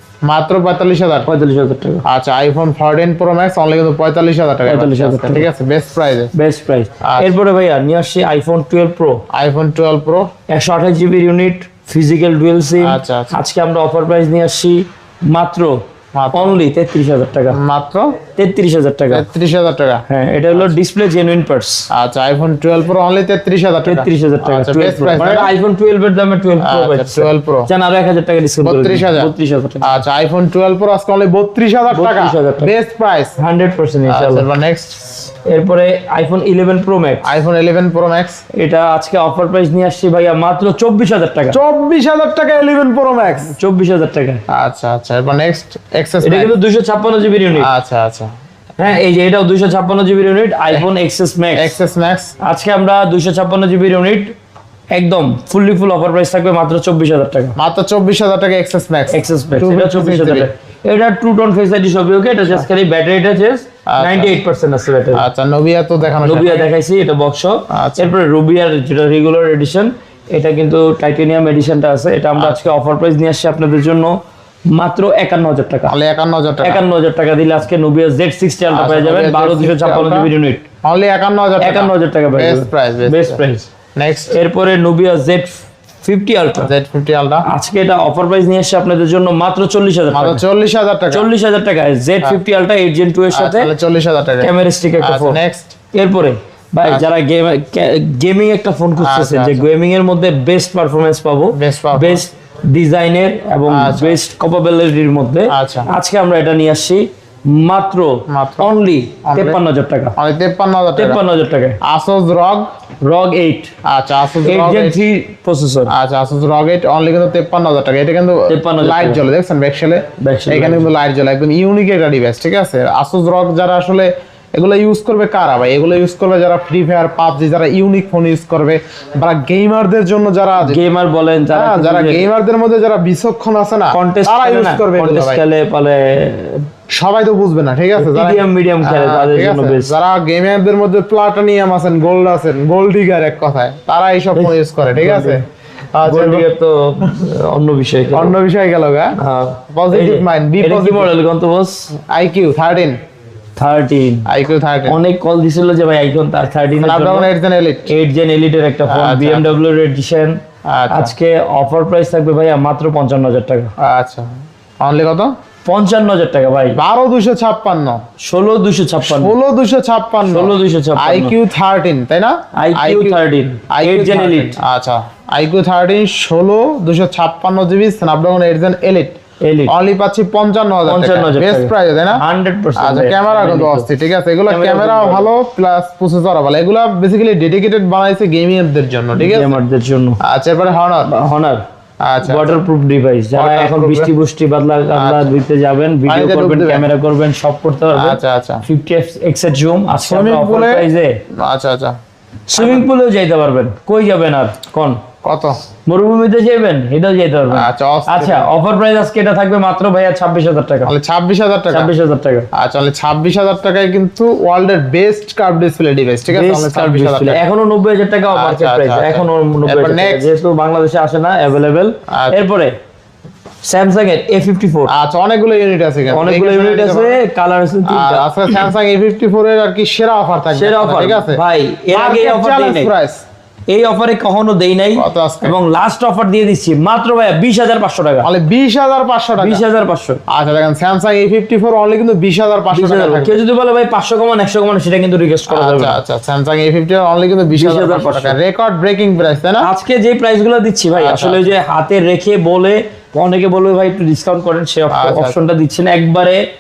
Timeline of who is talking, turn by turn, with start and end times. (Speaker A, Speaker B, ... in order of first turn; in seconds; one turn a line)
Speaker A: 0.2-1.3
Speaker B: 1.2-2.0
Speaker A: 2.0-6.3
Speaker B: 4.6-5.5
Speaker B: 6.3-9.2
Speaker A: 7.0-7.3
Speaker A: 9.3-10.3
Speaker B: 10.5-17.6
Speaker A: 12.8-13.3
Speaker A: 16.1-16.6
Speaker A: 17.5-18.2
Speaker B: 18.4-19.2
Speaker A: 19.1-20.0
Speaker B: 20.1-21.9
Speaker A: 21.9-25.5
Speaker B: 23.9-30.0
Speaker A: 26.6-27.7
Speaker A: 28.6-29.3
Speaker A: 29.8-33.4
Speaker B: 31.9-32.7
Speaker B: 33.4-34.5
Speaker A: 34.1-35.3
Speaker B: 35.4-37.3
Speaker A: 37.2-38.4
Speaker B: 38.5-41.6
Speaker A: 41.5-43.5
Speaker B: 43.5-44.4
Speaker A: 44.5-46.5
Speaker B: 46.2-47.7
Speaker A: 47.6-48.3
Speaker B: 48.8-51.8
Speaker A: 51.5-52.3
Speaker B: 52.4-54.3
Speaker B: 54.9-57.5
Speaker A: 57.6-60.5
Speaker B: 59.1-65.3
Speaker A: 63.9-64.4
Speaker A: 65.1-66.7
Speaker B: 66.2-75.9
Speaker A: 67.7-68.1
Speaker A: 75.9-76.8
Speaker B: 76.6-80.6
Speaker A: 78.7-80.3
Speaker A: 80.8-83.4
Speaker B: 81.6-83.7
Speaker A: 84.0-84.3
Speaker B: 84.3-86.7
Speaker A: 86.6-87.5
Speaker B: 87.4-90.4
Speaker A: 90.1-91.3
Speaker B: 91.1-93.7
Speaker A: 93.3-95.7
Speaker B: 94.4-95.4
Speaker B: 95.9-110.1
Speaker A: 99.0-99.7
Speaker A: 101.5-102.2
Speaker A: 103.7-104.2
Speaker A: 105.5-105.9
Speaker A: 108.3-108.7
Speaker A: 109.2-109.6
Speaker A: 110.2-111.2
Speaker B: 111.0-111.8
Speaker A: 111.8-112.7
Speaker B: 113.0-113.7
Speaker A: 113.8-115.0
Speaker B: 114.4-115.9
Speaker A: 115.9-130.8
Speaker B: 118.5-119.2
Speaker B: 120.2-120.9
Speaker B: 130.6-132.2
Speaker A: 131.5-135.4
Speaker B: 133.9-136.7
Speaker A: 136.9-145.4
Speaker B: 138.0-139.9
Speaker B: 144.3-145.4
Speaker A: 145.9-146.5
Speaker B: 146.0-148.4
Speaker A: 148.1-149.2
Speaker B: 149.2-151.9
Speaker A: 149.7-151.1
Speaker A: 152.1-153.0
Speaker B: 153.6-154.3
Speaker A: 154.2-155.0
Speaker B: 154.8-157.3
Speaker A: 156.8-157.9
Speaker B: 157.8-163.7
Speaker A: 158.9-159.5
Speaker A: 160.7-161.1
Speaker A: 163.8-165.3
Speaker B: 165.6-166.8
Speaker A: 166.8-168.0
Speaker B: 168.2-169.3
Speaker A: 169.0-173.2
Speaker B: 170.3-171.3
Speaker B: 172.5-174.6
Speaker A: 173.7-182.2
Speaker B: 179.4-179.7
Speaker B: 180.8-183.9
Speaker A: 182.8-189.5
Speaker B: 184.5-185.3
Speaker B: 189.2-190.2
Speaker A: 190.2-191.1
Speaker B: 191.1-191.6
Speaker A: 192.0-192.4
Speaker B: 192.2-201.2
Speaker A: 193.3-194.1
Speaker A: 194.9-195.3
Speaker A: 196.1-196.9
Speaker A: 197.9-198.6
Speaker A: 200.0-202.0
Speaker B: 202.5-205.0
Speaker A: 202.6-202.8
Speaker A: 205.2-205.6
Speaker B: 205.8-210.9
Speaker A: 207.5-208.5
Speaker A: 210.8-211.9
Speaker B: 211.7-212.5
Speaker A: 212.5-217.4
Speaker B: 216.3-222.8
Speaker A: 218.3-220.3
Speaker A: 222.1-222.4
Speaker B: 223.6-224.9
Speaker A: 224.9-227.2
Speaker B: 226.1-228.7
Speaker A: 227.8-231.4
Speaker B: 230.5-232.9
Speaker A: 231.9-233.2
Speaker B: 233.7-238.3
Speaker A: 234.9-235.6
Speaker A: 238.2-239.6
Speaker B: 239.4-240.2
Speaker A: 240.3-243.3
Speaker B: 242.7-246.0
Speaker A: 245.5-249.7
Speaker B: 247.5-248.4
Speaker B: 249.6-256.4
Speaker A: 250.9-251.5
Speaker A: 254.9-255.4